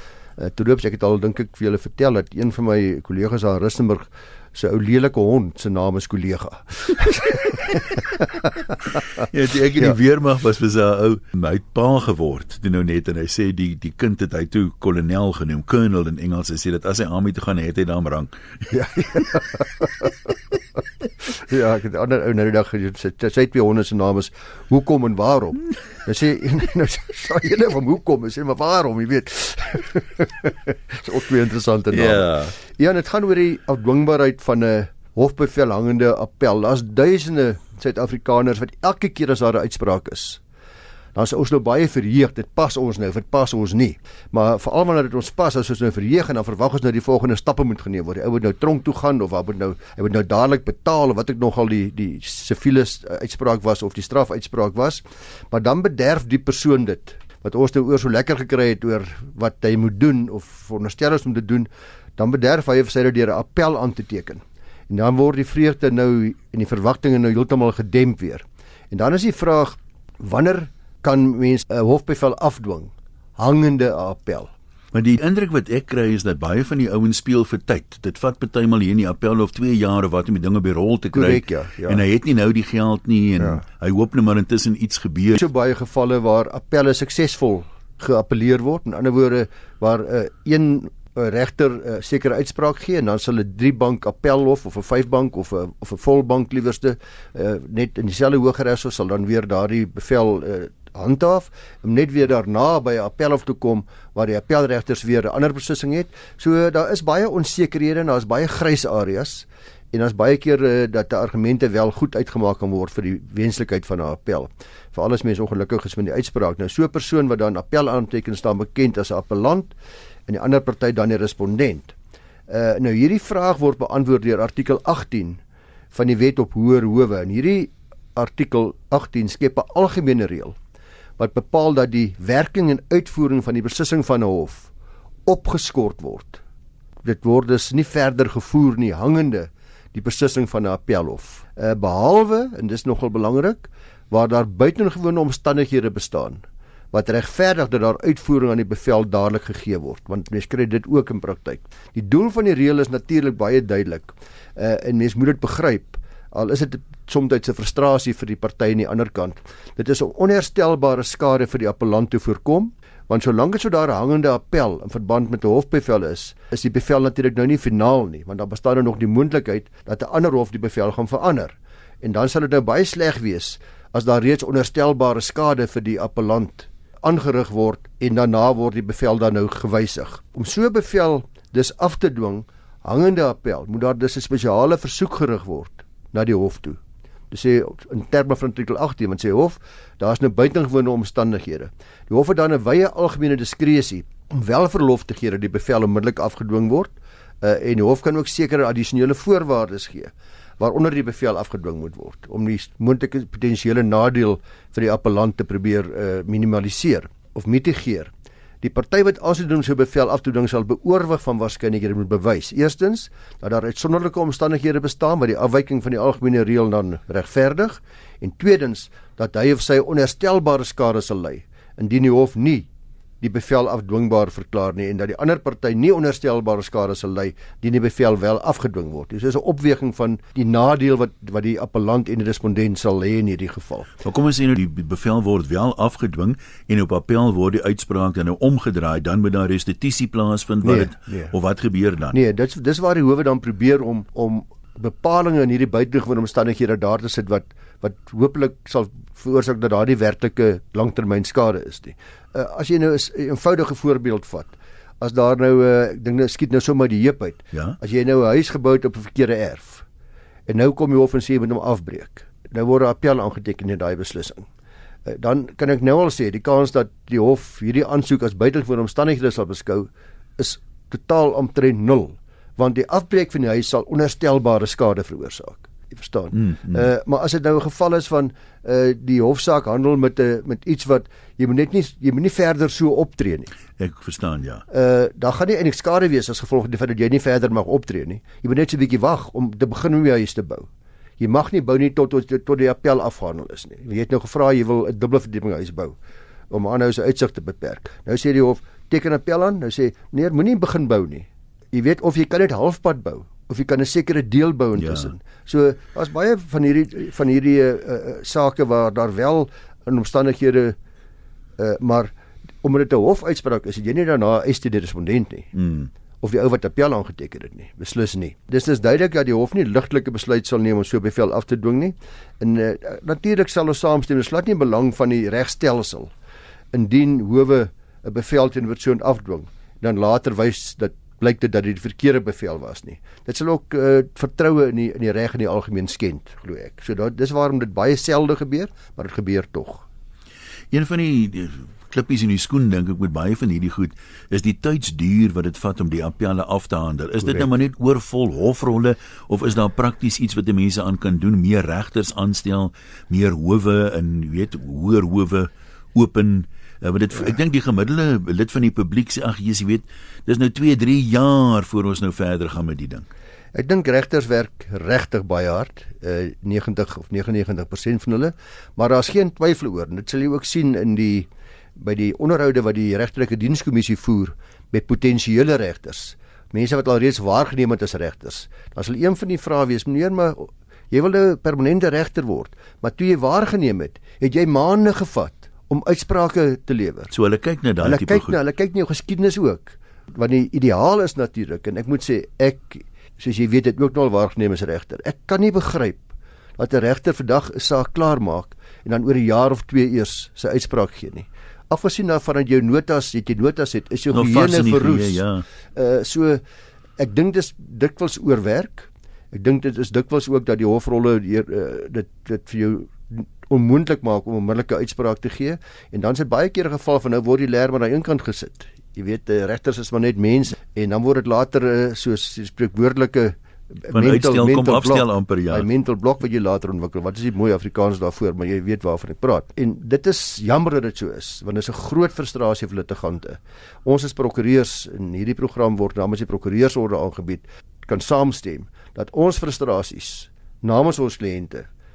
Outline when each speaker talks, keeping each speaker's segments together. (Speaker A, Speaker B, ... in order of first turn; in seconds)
Speaker A: 0.4-9.2, 18.7-20.5, 21.2-40.4, 41.1-74.5, 81.1-82.0, 85.4-119.8, 120.3-122.0, 122.5-125.4, 125.9-130.6, 131.2-134.7, 135.3-136.4, 137.0-186.8, 187.3-222.7, 223.2-233.9, 240.6-241.3, 242.1-259.9, 260.5-264.5, 265.1-283.5, 284.7-290.7, 291.2-296.0, 296.5-310.8, 311.6-315.5, 316.2-326.1, 326.7-339.9, 363.5-387.1, 387.8-405.2, 405.7-406.4, 407.0-441.7
Speaker B: 9.2-19.3, 31.9-32.5, 74.9-85.4, 234.0-242.2, 257.5-257.8, 276.4-276.8, 283.8-284.6, 304.8-305.1, 315.6-315.9, 340.7-363.1, 387.1-388.4, 404.1-405.5, 423.9-425.7